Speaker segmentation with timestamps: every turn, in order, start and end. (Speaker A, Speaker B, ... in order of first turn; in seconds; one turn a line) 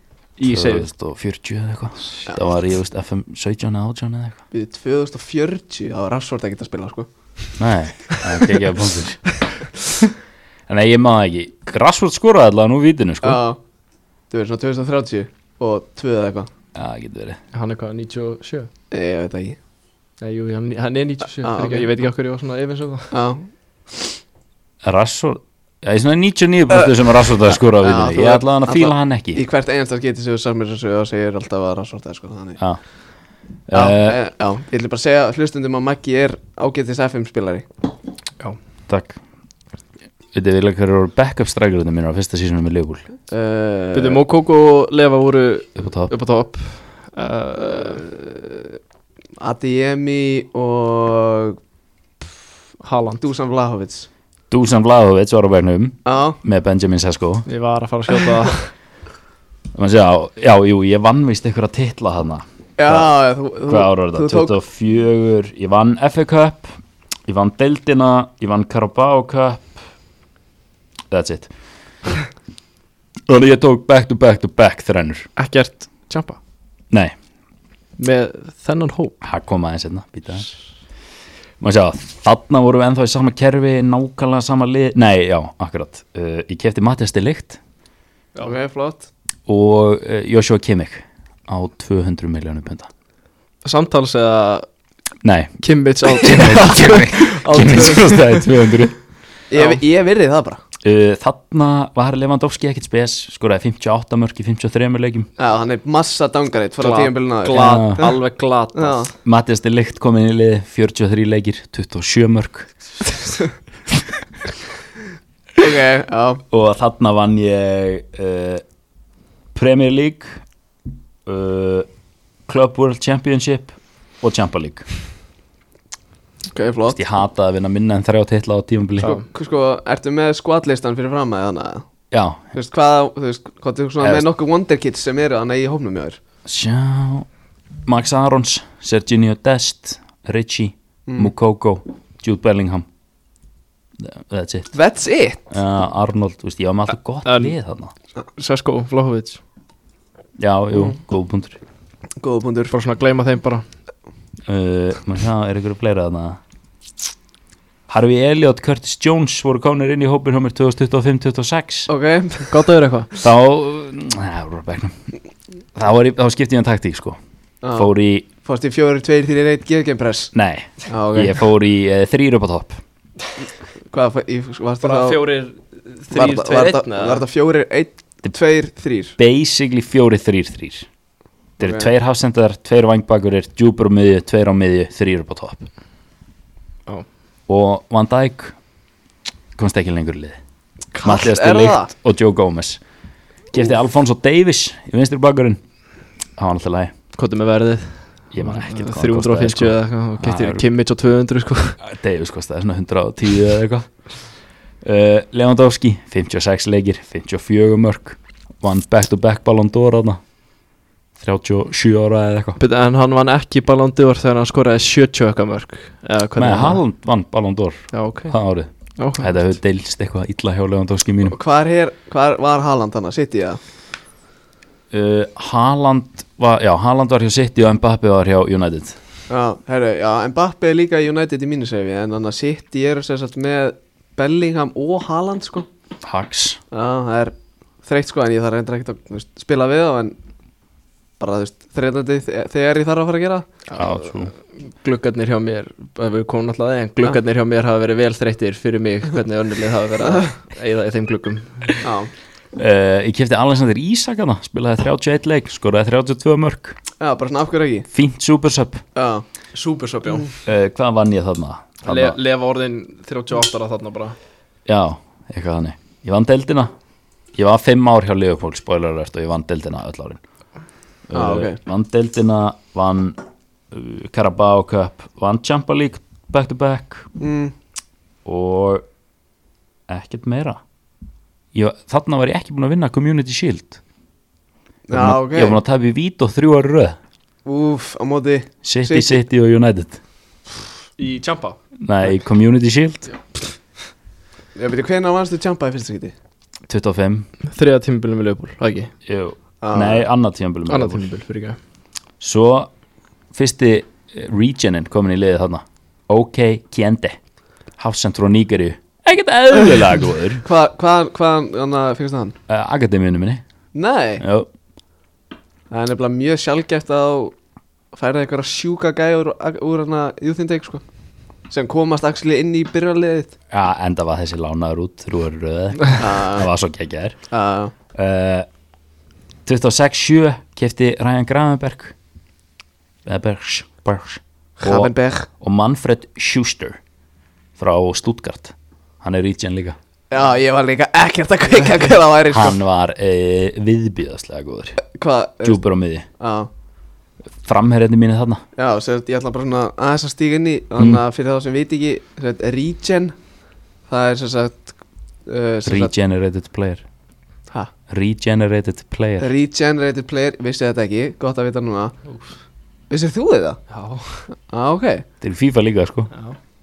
Speaker A: 0.4-0.9
Speaker B: 0.5-4.4
Speaker C: 4.5-7.1
Speaker B: 7.6-9.4
Speaker B: 10.7-13.4
Speaker C: 13.2-13.6
Speaker C: 14.3-16.5
Speaker B: 16.7-17.4
Speaker A: 17.5-18.7
Speaker C: 18.9-19.6
Speaker A: 20.2-23.1
Speaker C: 21.4-21.9
Speaker C: 23.1-23.5
Speaker B: 24.8-29.4
Speaker C: 27.8-32.6
Speaker B: 33.7-34.2
Speaker C: 33.7-37.6
Speaker B: 38.9-39.2
Speaker B: 40.3-43.0
Speaker C: 43.3-44.2
Speaker A: 43.9-48.0
Speaker B: 45.8-46.1
Speaker C: 49.4-51.6
Speaker A: 52.8-53.2
Speaker C: 53.2-54.1
Speaker B: 54.5-57.5
Speaker C: 56.0-56.4
Speaker A: 57.5-58.7
Speaker B: 59.7-63.1
Speaker C: 62.8-64.5
Speaker B: 63.7-69.8
Speaker B: 71.1-71.5
Speaker B: 73.3-75.3
Speaker A: 75.4-76.4
Speaker A: 78.0-79.1
Speaker B: 79.2-80.5
Speaker B: 81.6-87.6
Speaker C: 88.4-89.1
Speaker B: 89.5-92.9
Speaker A: 93.6-94.7
Speaker B: 95.2-99.0
Speaker A: 95.6-98.5
Speaker C: 99.5-100.6
Speaker A: 99.5-99.8
Speaker B: 100.8-105.3
Speaker C: 105.4-108.1
Speaker A: 106.8-109.1
Speaker B: 107.5-108.1
Speaker C: 108.7-109.1
Speaker B: 109.2-112.7
Speaker C: 115.6-116.4
Speaker B: 116.5-118.6
Speaker B: 119.5-120.4
Speaker B: 121.2-121.9
Speaker B: 122.5-124.8
Speaker C: 126.5-127.0
Speaker B: 126.9-129.1
Speaker C: 129.0-131.8
Speaker B: 132.1-132.4
Speaker C: 132.5-136.2
Speaker B: 134.0-134.2
Speaker B: 136.4-137.3
Speaker B: 137.8-142.9
Speaker C: 141.1-141.3
Speaker B: 144.0-144.7
Speaker C: 144.7-145.4
Speaker B: 145.5-147.9
Speaker A: 147.2-147.5
Speaker A: 148.4-149.4
Speaker B: 150.4-151.6
Speaker C: 152.2-152.7
Speaker A: 152.7-153.6
Speaker B: 154.4-156.4
Speaker B: 157.9-161.9
Speaker C: 161.9-162.6
Speaker A: 162.5-163.1
Speaker B: 163.2-164.9
Speaker B: 165.7-167.2
Speaker C: 167.6-167.9
Speaker B: 167.7-168.2
Speaker C: 168.4-170.3
Speaker B: 170.3-172.8
Speaker C: 170.8-171.4
Speaker C: 173.9-175.2
Speaker A: 174.8-177.2
Speaker C: 176.1-179.2
Speaker B: 179.2-180.9
Speaker B: 181.6-185.7
Speaker C: 181.6-181.9
Speaker B: 187.5-188.6
Speaker B: 189.6-190.4
Speaker C: 190.9-191.9
Speaker B: 191.0-192.8
Speaker B: 193.5-195.6
Speaker B: 196.4-196.9
Speaker A: 197.1-201.8
Speaker B: 198.3-200.6
Speaker B: 201.8-203.9
Speaker B: 204.8-210.2
Speaker B: 211.2-212.6
Speaker A: 212.6-216.8
Speaker B: 216.4-221.3
Speaker A: 217.9-218.3
Speaker A: 219.0-219.3
Speaker C: 221.2-223.6
Speaker B: 224.9-229.0
Speaker C: 229.3-235.7
Speaker B: 236.0-236.6
Speaker C: 236.7-237.3
Speaker C: 237.8-240.2
Speaker C: 241.2-243.5
Speaker B: 243.7-244.3
Speaker A: 244.7-251.8
Speaker C: 251.8-252.1
Speaker B: 252.6-256.8
Speaker C: 257.0-257.9
Speaker B: 257.9-258.8
Speaker C: 258.9-259.2
Speaker A: 259.5-260.3
Speaker B: 260.4-262.2
Speaker A: 261.8-264.1
Speaker B: 264.7-266.7
Speaker B: 267.3-270.2
Speaker B: 271.1-273.2
Speaker C: 271.1-271.6
Speaker B: 273.7-277.1
Speaker C: 277.2-277.5
Speaker B: 278.2-278.8
Speaker B: 279.9-280.6
Speaker B: 281.5-283.8
Speaker C: 284.9-285.6
Speaker B: 284.9-287.0
Speaker C: 287.4-289.2
Speaker B: 288.6-290.0
Speaker A: 291.0-291.6
Speaker B: 291.8-293.1
Speaker C: 294.6-296.1
Speaker B: 296.7-297.3
Speaker A: 297.5-298.9
Speaker B: 299.1-301.1
Speaker C: 299.6-300.0
Speaker A: 300.7-301.6
Speaker B: 302.2-302.7
Speaker B: 303.3-307.2
Speaker B: 307.8-310.4
Speaker C: 310.4-312.3
Speaker B: 312.5-313.4
Speaker C: 313.7-314.2
Speaker B: 314.2-314.5
Speaker C: 315.7-317.3
Speaker C: 317.9-320.8
Speaker C: 321.5-323.3
Speaker B: 323.5-327.2
Speaker C: 326.0-326.5
Speaker C: 327.3-327.7
Speaker B: 327.9-328.5
Speaker B: 329.4-331.9
Speaker B: 333.0-336.8
Speaker C: 334.6-335.3
Speaker B: 337.6-339.8
Speaker C: 340.1-342.6
Speaker B: 342.3-344.8
Speaker C: 344.8-345.6
Speaker B: 345.4-346.1
Speaker C: 346.2-346.5
Speaker B: 347.4-348.4
Speaker C: 348.6-353.1
Speaker C: 353.9-355.9
Speaker B: 355.6-356.8
Speaker B: 357.9-359.3
Speaker C: 359.2-361.9
Speaker C: 362.9-363.6
Speaker A: 363.7-364.3
Speaker C: 364.5-365.0
Speaker B: 365.2-366.1